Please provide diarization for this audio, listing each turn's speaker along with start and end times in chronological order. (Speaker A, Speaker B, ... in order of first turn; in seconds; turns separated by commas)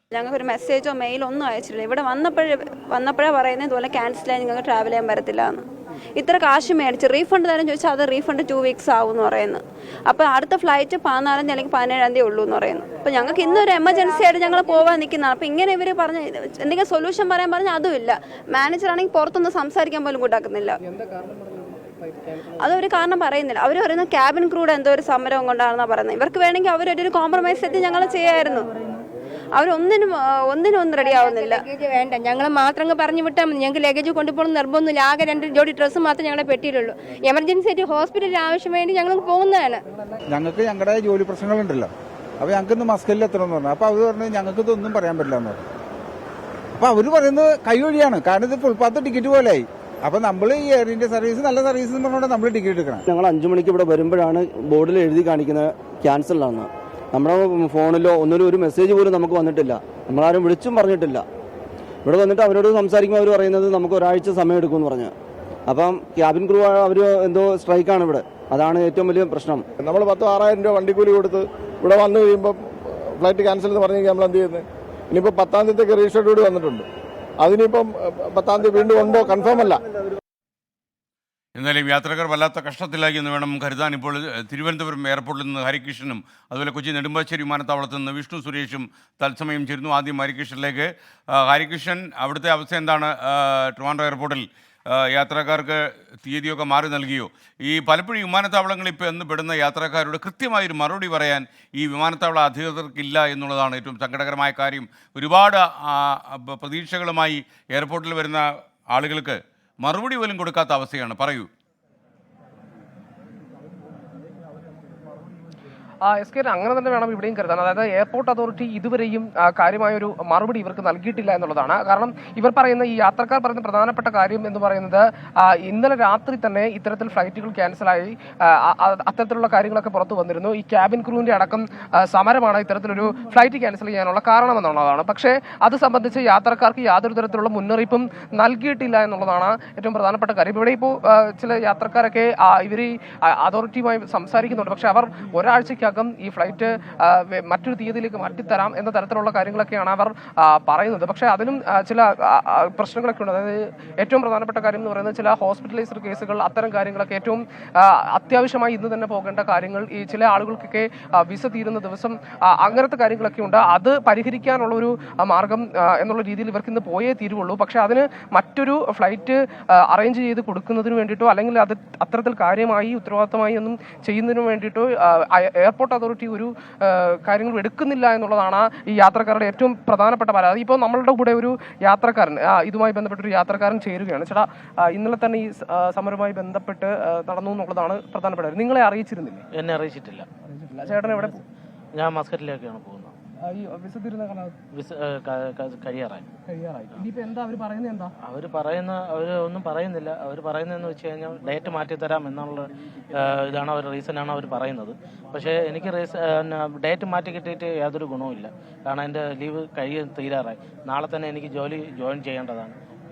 Speaker A: 0.1-20.8, Speaker A: 22.6-28.7, Speaker A: 29.6-31.6, Speaker B: 31.1-39.8, Speaker C: 40.3-41.9, Speaker C: 42.4-45.6, Speaker C: 46.8-53.0, Speaker D: 53.1-61.2, Speaker D: 62.1-65.1, Speaker D: 65.7-69.6, Speaker E: 69.8-76.9, Speaker E: 77.4-79.8, Speaker F: 81.6-111.5, Speaker G: 116.1-189.5, Speaker H: 189.5-190.3, Speaker G: 190.7-191.4, Speaker H: 191.9-193.1, Speaker G: 193.4-194.6, Speaker H: 194.7-196.3, Speaker G: 196.5-198.1, Speaker H: 198.2-212.8